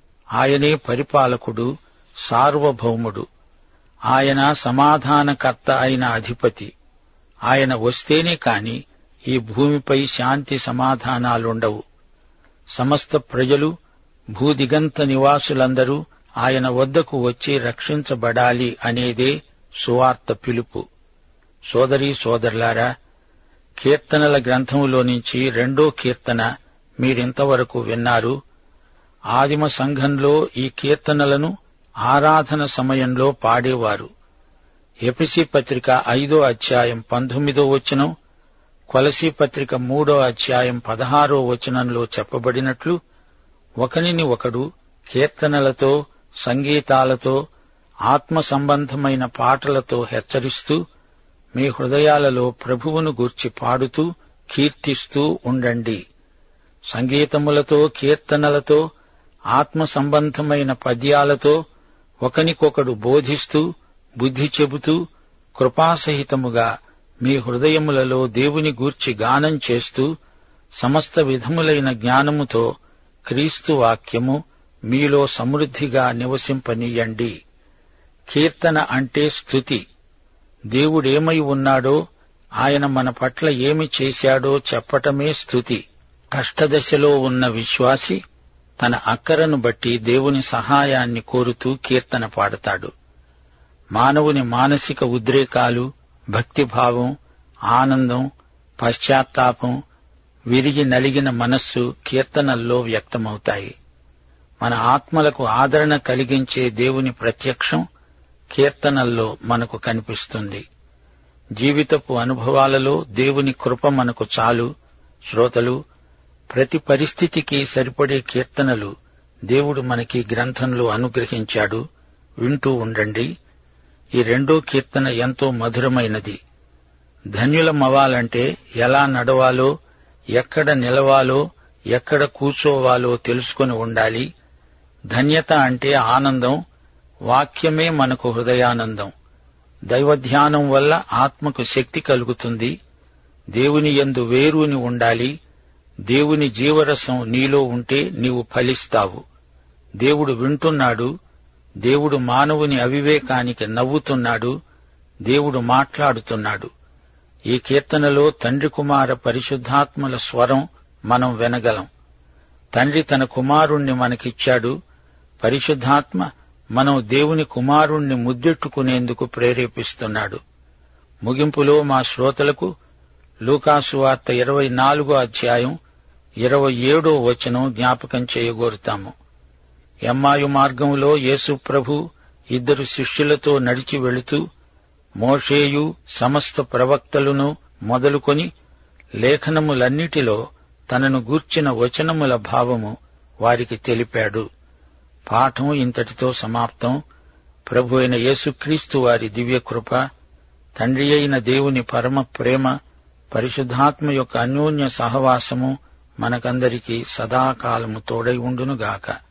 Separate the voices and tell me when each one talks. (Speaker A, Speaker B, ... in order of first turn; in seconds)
Speaker A: 0.4-1.7, 2.3-3.2, 4.1-6.7, 7.5-11.8, 12.8-13.7, 14.3-20.9, 21.7-22.9, 23.8-26.5, 27.0-28.4, 29.3-31.5, 32.1-34.1, 35.1-38.1, 38.9-43.0, 43.8-47.4, 48.1-50.8, 51.5-56.0, 56.9-58.8, 59.5-61.6, 62.2-63.7, 64.2-65.0, 65.6-66.7, 67.2-70.1, 70.8-72.7, 73.3-77.3, 78.3-79.8, 80.7-82.0, 82.6-85.8, 86.3-88.2, 88.8-92.9, 94.0-97.1, 97.7-98.3, 98.8-99.8, 100.5-103.7, 104.6-107.8, 108.5-110.7, 111.6-114.7, 115.3-115.8, 116.5-118.9, 119.5-121.8, 122.4-123.3, 124.2-126.4, 127.3-129.7, 130.4-134.3, 135.1-136.6, 137.3-139.1, 139.9-142.7, 143.6-145.3, 146.1-149.2, 150.0-151.1, 151.8-154.6, 155.3-156.7, 157.5-161.9, 162.7-164.8, 165.4-170.4, 171.2-172.7, 173.5-175.8, 176.4-179.1, 180.1-182.0, 182.5-184.4, 185.2-188.5, 189.2-194.5, 195.3-197.0, 197.7-200.0, 200.8-202.8, 203.3-209.2